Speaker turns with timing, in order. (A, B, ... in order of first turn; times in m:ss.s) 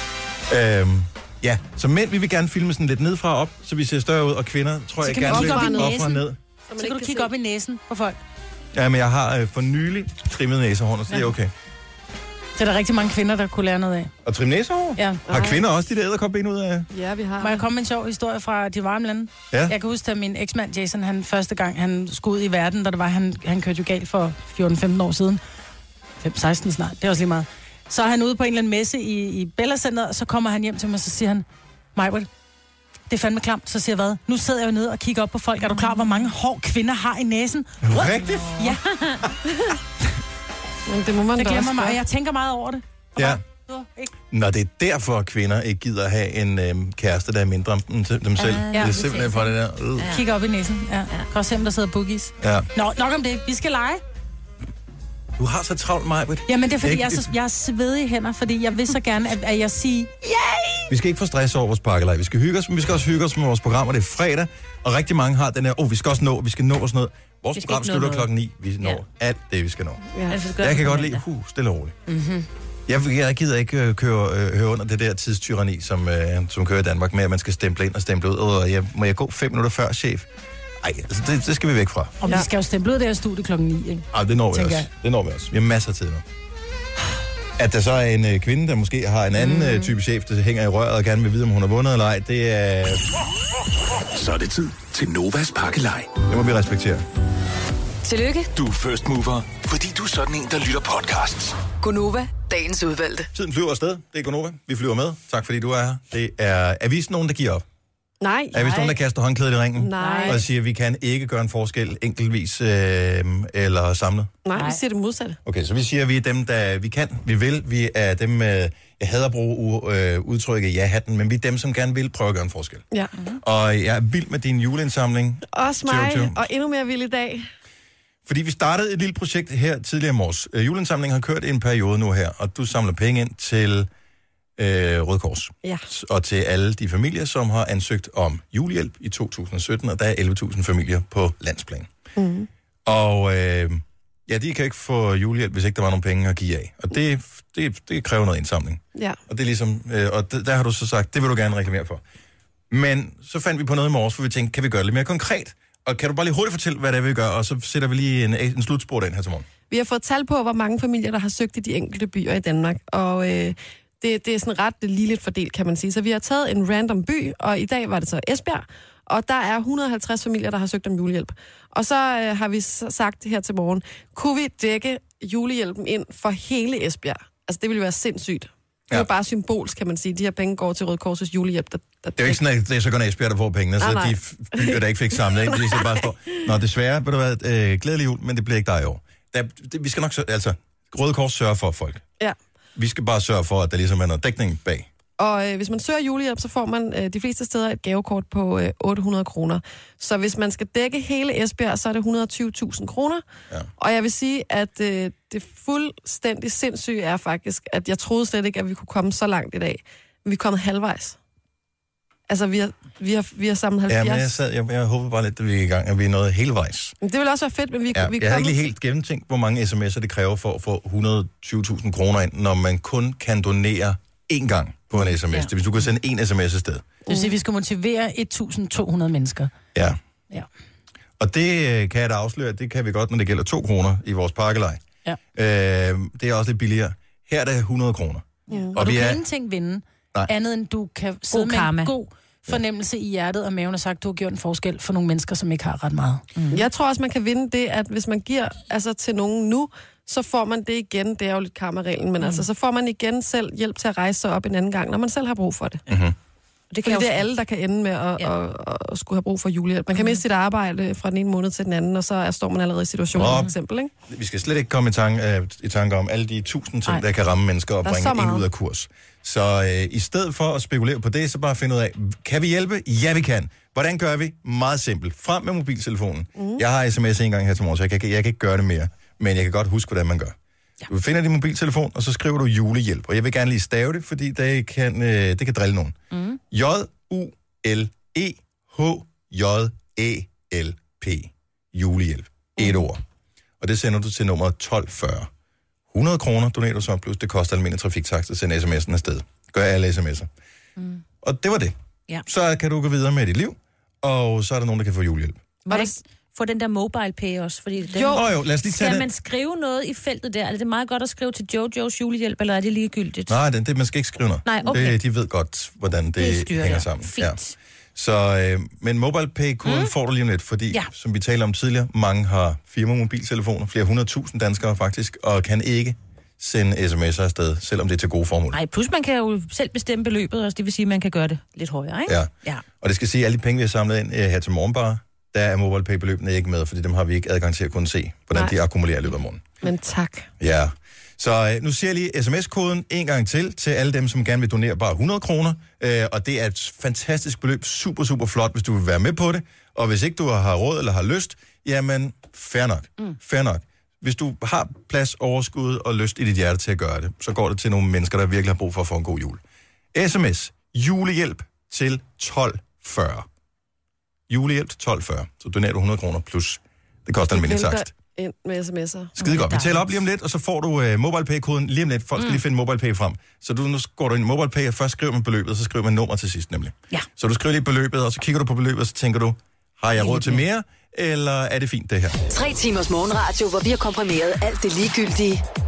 0:00.5-0:06.4 A
0:05.0-0:06.2 B
0:05.3-0:06.2 C
0:06.7-0:07.3 C
0:06.8-0:08.2 B
0:08.7-0:11.5 A
0:12.6-0:14.1 B
0:14.2-0:16.9 A
0:15.0-0:15.2 B
0:15.3-0:15.6 C
0:16.9-0:17.6 C
0:17.4-0:25.4 B
0:26.2-0:32.3 B
0:33.1-0:38.8 B
0:37.8-0:38.6 A
0:38.0-0:39.2 D
0:39.5-0:39.8 C
0:40.9-0:42.0 C
0:41.4-0:44.1 B
0:43.2-0:43.4 A
0:44.3-0:50.2 A
0:48.4-0:50.2 D
0:48.7-0:49.0 B
0:50.0-0:54.0 B
0:52.4-0:52.7 A
0:55.4-0:57.3 A
0:56.5-1:00.9 B
1:00.9-1:10.0 A
1:07.6-1:08.3 D
1:10.2-1:10.4 C
1:10.3-1:11.2 D
1:10.6-1:12.0 A
1:12.1-1:12.5 B
1:12.9-1:20.3 A
1:20.8-1:22.2 A
1:22.2-1:24.9 B
1:24.1-1:26.2 A
1:27.6-1:33.0 A
1:34.1-1:36.2 E
1:36.2-1:37.0 A
1:38.0-1:38.5 F
1:38.6-1:41.6 E
1:41.8-1:43.3 F
1:43.3-1:47.6 A
1:48.2-1:48.8 C
1:48.5-1:54.3 A
1:49.8-1:50.4 C
1:50.0-1:50.4 B
1:54.4-1:55.4 C
1:55.4-2:02.8 A
2:03.4-2:06.4 A
2:05.5-2:07.5 C
2:08.3-2:13.9 A
2:14.6-2:21.9 A
2:22.2-2:22.5 C
2:22.9-2:32.0 A
2:32.7-2:39.5 A
2:39.7-3:02.4 C
3:02.2-3:12.0 A
3:03.8-3:06.1 C
3:12.8-3:14.9 A
3:15.2-3:23.2 C
3:23.8-3:31.2 C
3:32.3-3:34.3 C
3:33.9-3:37.0 A
3:37.0-3:38.6 C
3:37.9-3:46.9 A
3:47.1-3:47.4 C
3:47.1-3:49.5 B
3:51.2-3:54.8 A
3:55.4-3:59.2 A
3:58.5-3:58.8 C
3:58.7-4:06.2 B
4:01.3-4:01.9 D
4:06.4-4:06.7 D
4:06.5-4:15.8 C
4:12.2-4:12.5 D
4:15.9-4:16.2 A
4:16.7-4:17.3 D
4:16.8-4:23.9 C
4:20.0-4:20.2 D
4:23.2-4:23.5 A
4:23.2-4:23.5 D
4:24.1-4:40.4 A
4:27.8-4:28.5 C
4:36.4-4:36.6 C
4:40.9-4:46.0 A
4:46.1-4:46.4 D
4:46.5-4:53.0 A
4:53.6-4:55.3 A
4:55.9-5:00.3 A
5:01.2-5:01.8 A
5:02.3-5:05.4 A
5:05.7-5:13.4 D
5:05.7-5:06.0 C
5:07.9-5:08.2 C
5:08.1-5:09.1 A
5:13.3-5:17.4 A
5:14.5-5:15.0 D
5:16.2-5:17.6 D
5:18.0-5:28.6 A
5:19.6-5:19.9 D
5:28.5-5:32.6 D
5:32.1-5:39.4 A
5:39.6-5:40.3 C
5:40.4-5:59.4 A
5:59.9-6:03.3 A
6:04.3-6:07.9 A
6:07.3-6:09.1 C
6:09.2-6:22.2 A
6:09.2-6:09.8 D
6:12.2-6:12.4 D
6:22.3-6:25.4 F